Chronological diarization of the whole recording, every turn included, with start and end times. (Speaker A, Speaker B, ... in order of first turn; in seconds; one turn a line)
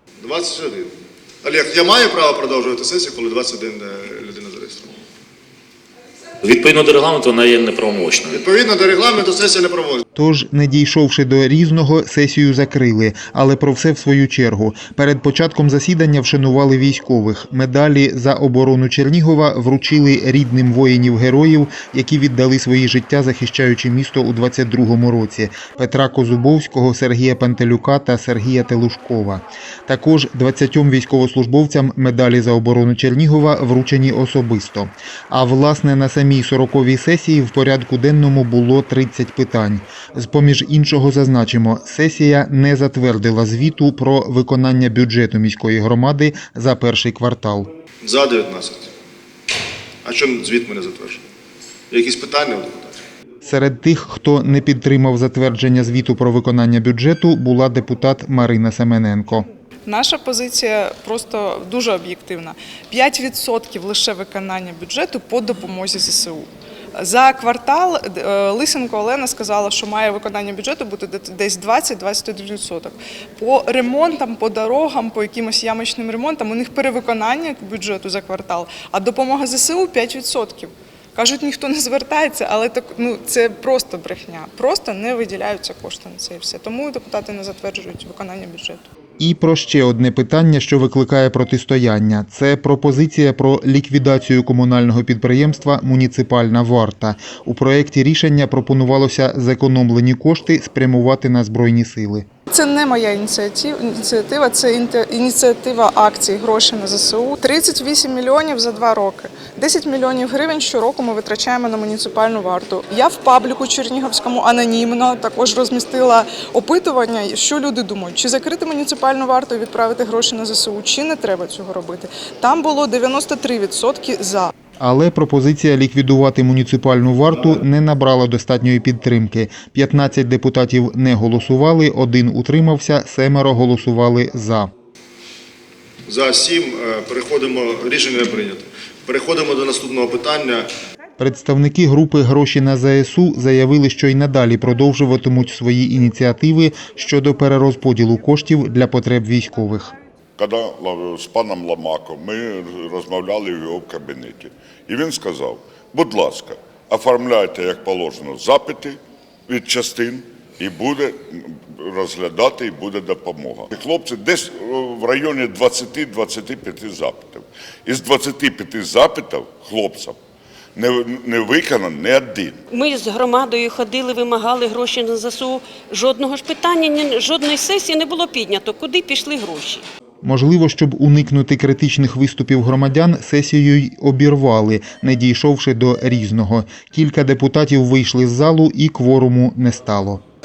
Speaker A: 0.2-4.9
Speaker B: 6.4-8.4
Speaker A: 8.3-10.0
Speaker C: 10.2-47.7
Speaker A: 48.0-48.9
Speaker A: 50.0-51.2
Speaker A: 51.9-53.0
Speaker C: 53.4-59.5
Speaker D: 59.9-88.9
Speaker C: 89.2-102.3
Speaker D: 102.5-124.5
Speaker C: 124.8-134.7
Speaker A: 136.1-140.7
Speaker C: 141.2-149.9
Speaker E: 150.4-170.2
Speaker E: 170.8-172.6
Speaker F: 172.7-179.9
Speaker C: 180.2-190.2